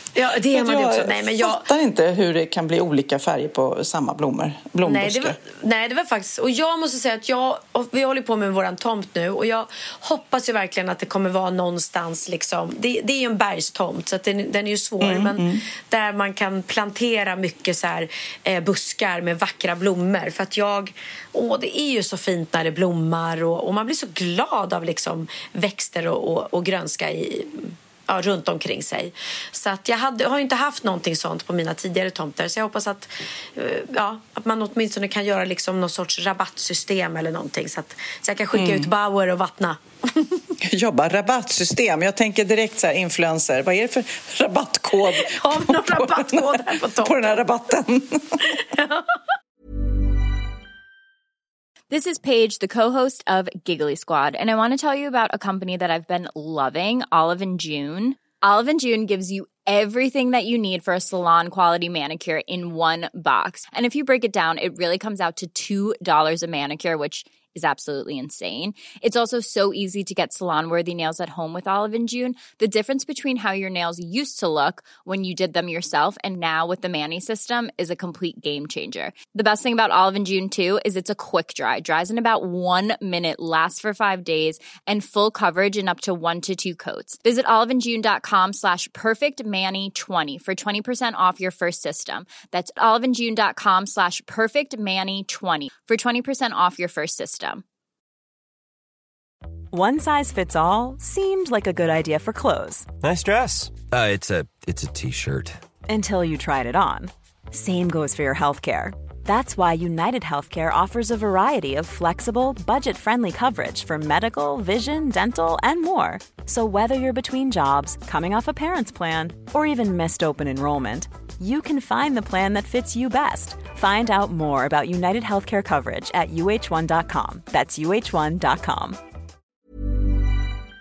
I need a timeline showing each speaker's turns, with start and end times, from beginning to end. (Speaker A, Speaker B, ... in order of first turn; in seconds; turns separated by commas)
Speaker A: 0.1-1.6, Speaker B: 0.4-5.4, Speaker A: 4.8-40.4, Speaker B: 15.0-15.6, Speaker B: 38.5-38.9, Speaker B: 40.6-48.4, Speaker A: 45.1-47.4, Speaker A: 48.5-49.0, Speaker C: 51.9-97.6, Speaker D: 99.7-102.9, Speaker E: 103.0-105.6, Speaker D: 105.9-129.0